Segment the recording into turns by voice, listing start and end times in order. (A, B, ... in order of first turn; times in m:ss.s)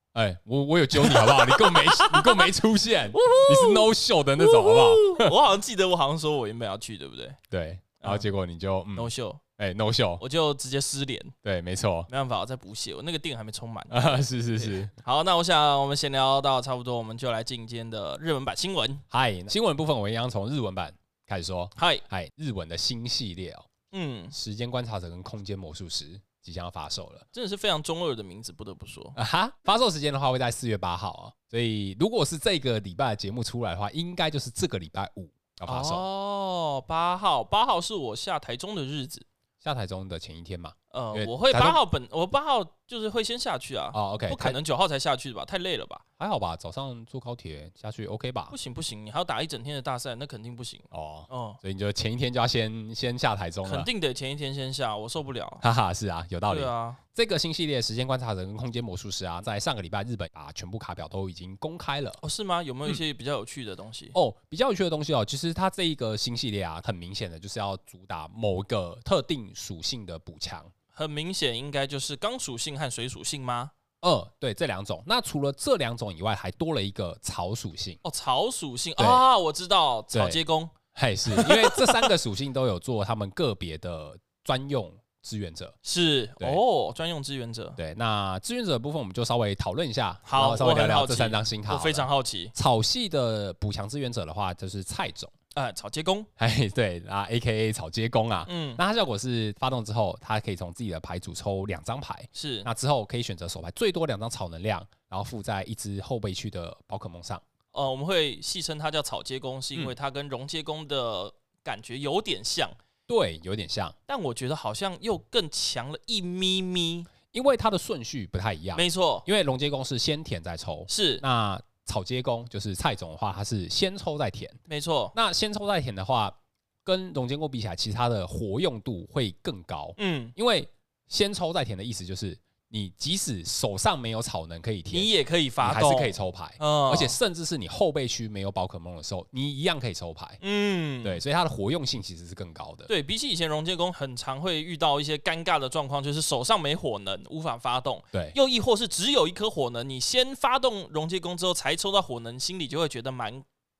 0:00.1-0:05.3 A
0:01.0-0:02.5 B
0:03.1-0:07.4 B
0:07.5-0:10.2 A
0:09.0-0:09.4 B
0:10.2-0:11.3 B
0:11.4-0:12.1 A
0:12.1-0:19.0 B
0:13.9-0:14.9 A
0:19.1-0:23.7 A
0:21.8-0:22.0 B
0:23.9-0:24.3 B
0:24.3-0:27.2 A
0:27.3-0:29.1 B
0:29.1-0:36.0 A
0:35.7-0:39.2 B
0:39.6-0:41.8 A
0:40.9-0:46.0 B
0:43.9-0:44.6 A
0:46.2-0:48.5 A
0:48.5-0:51.6 B
0:50.9-0:53.9 A
0:53.6-0:55.6 B
0:55.6-1:02.2 A
0:56.5-0:57.0 B
1:02.2-1:04.1 B
1:04.1-1:10.7 A
1:10.9-1:13.7 B
1:14.0-1:18.0 A
1:18.0-1:20.7 B
1:19.0-1:19.2 A
1:20.1-1:20.4 A
1:20.9-1:25.7 A
1:21.3-1:22.1 B
1:25.8-1:27.8 B
1:27.8-1:35.3 A
1:30.2-1:32.5 B
1:35.5-1:36.3 B
1:36.4-1:47.4 A
1:38.4-1:38.8 B
1:42.3-1:42.7 B
1:47.7-1:52.8 B
1:53.1-1:53.9 A
1:54.1-1:57.1 B
1:57.3-2:04.6 A
1:58.7-1:59.2 B
2:00.9-2:01.2 B
2:04.7-2:05.1 B
2:05.1-2:15.1 A
2:10.0-2:10.3 B
2:14.9-2:17.2 B
2:15.6-2:20.4 A
2:20.4-2:21.2 B
2:21.0-2:22.9 A
2:22.9-2:33.4 B